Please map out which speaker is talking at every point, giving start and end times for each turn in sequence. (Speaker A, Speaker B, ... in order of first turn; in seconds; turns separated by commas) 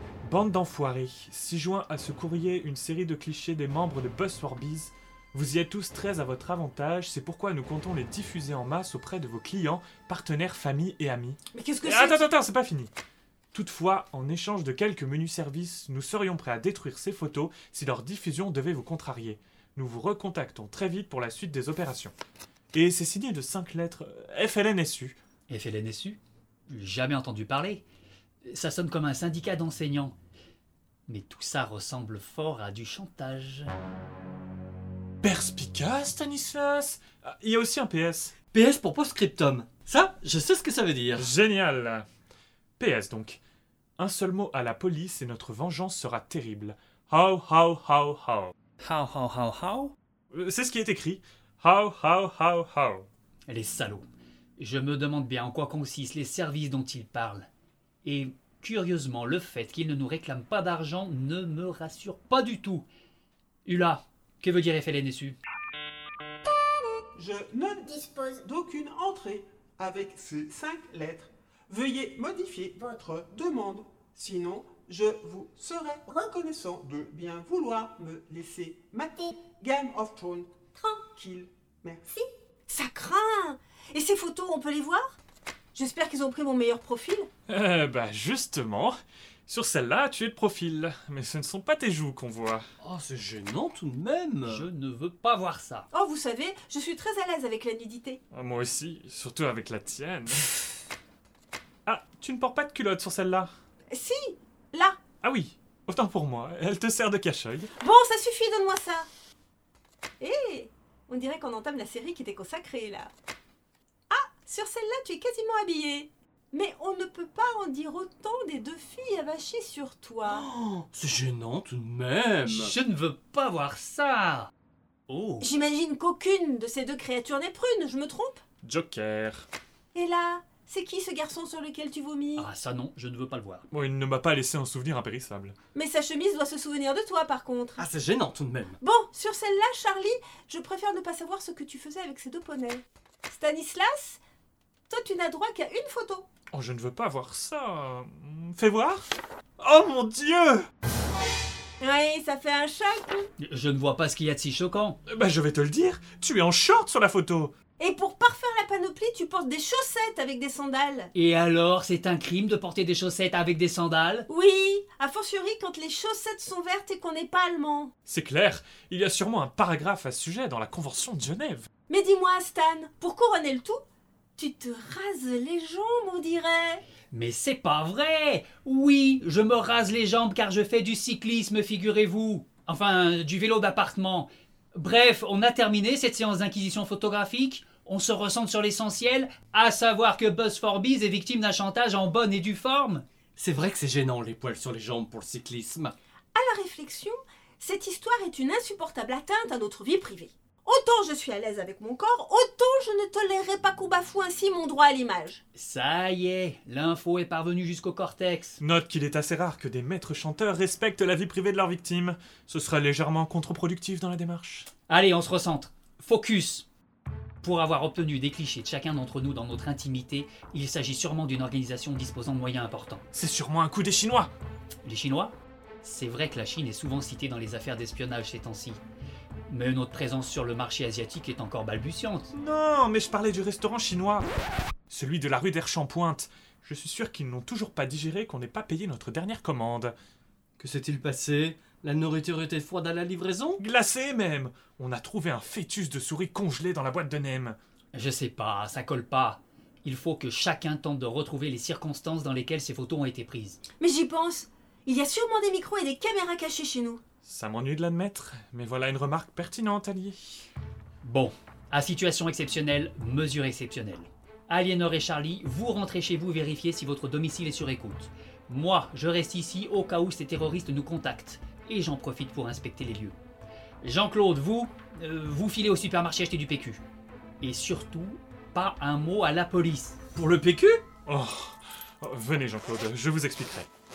Speaker A: 0.2-12.9, Speaker B: 11.5-12.2, Speaker A: 13.5-22.1, Speaker A: 22.7-25.2, Speaker C: 25.5-27.8, Speaker C: 28.4-30.1, Speaker C: 31.1-33.7, Speaker A: 35.2-38.4, Speaker D: 38.5-41.3, Speaker A: 41.2-42.0, Speaker A: 42.8-43.4, Speaker A: 44.0-48.5, Speaker C: 48.8-49.9, Speaker A: 50.3-53.1, Speaker C: 53.5-57.5, Speaker C: 58.0-62.9, Speaker C: 63.6-65.4, Speaker E: 67.1-82.2, Speaker B: 82.7-85.2, Speaker B: 85.7-87.3, Speaker A: 87.5-89.0, Speaker A: 89.5-92.7, Speaker D: 92.8-94.7, Speaker C: 94.5-95.9, Speaker B: 95.9-98.2, Speaker A: 98.3-100.6, Speaker A: 101.8-103.5, Speaker B: 103.9-105.0, Speaker A: 105.2-107.7, Speaker B: 107.8-109.1, Speaker B: 110.2-113.1, Speaker B: 114.1-120.5, Speaker D: 120.3-122.7, Speaker C: 122.5-124.5, Speaker C: 125.1-125.5, Speaker B: 125.4-128.4, Speaker A: 128.6-129.5, Speaker B: 129.9-132.5, Speaker C: 132.3-133.7, Speaker A: 133.7-135.5, Speaker B: 135.7-137.8, Speaker D: 137.8-138.8, Speaker B: 138.8-144.2, Speaker B: 144.9-146.2, Speaker A: 146.5-149.0, Speaker A: 149.6-150.7, Speaker B: 151.8-153.3, Speaker C: 153.4-155.0, Speaker A: 155.1-157.5, Speaker B: 157.8-161.1, Speaker C: 161.1-164.3, Speaker B: 164.3-167.9, Speaker A: 168.1-171.7, Speaker B: 171.9-173.8, Speaker B: 174.4-176.8, Speaker C: 177.1-193.0, Speaker D: 193.4-195.9, Speaker B: 196.3-205.4, Speaker C: 205.5-208.6, Speaker A: 208.6-214.7, Speaker C: 214.9-216.7, Speaker C: 217.4-223.0, Speaker A: 223.1-224.3, Speaker C: 224.8-228.8, Speaker C: 229.5-232.3, Speaker A: 232.3-234.3, Speaker A: 234.9-239.9, Speaker D: 240.6-243.6, Speaker A: 243.6-247.6, Speaker C: 247.9-253.6, Speaker B: 253.8-257.0, Speaker A: 257.2-260.4, Speaker C: 261.0-273.1, Speaker C: 273.8-276.8, Speaker C: 277.4-280.0, Speaker D: 280.1-280.8, Speaker A: 281.0-283.7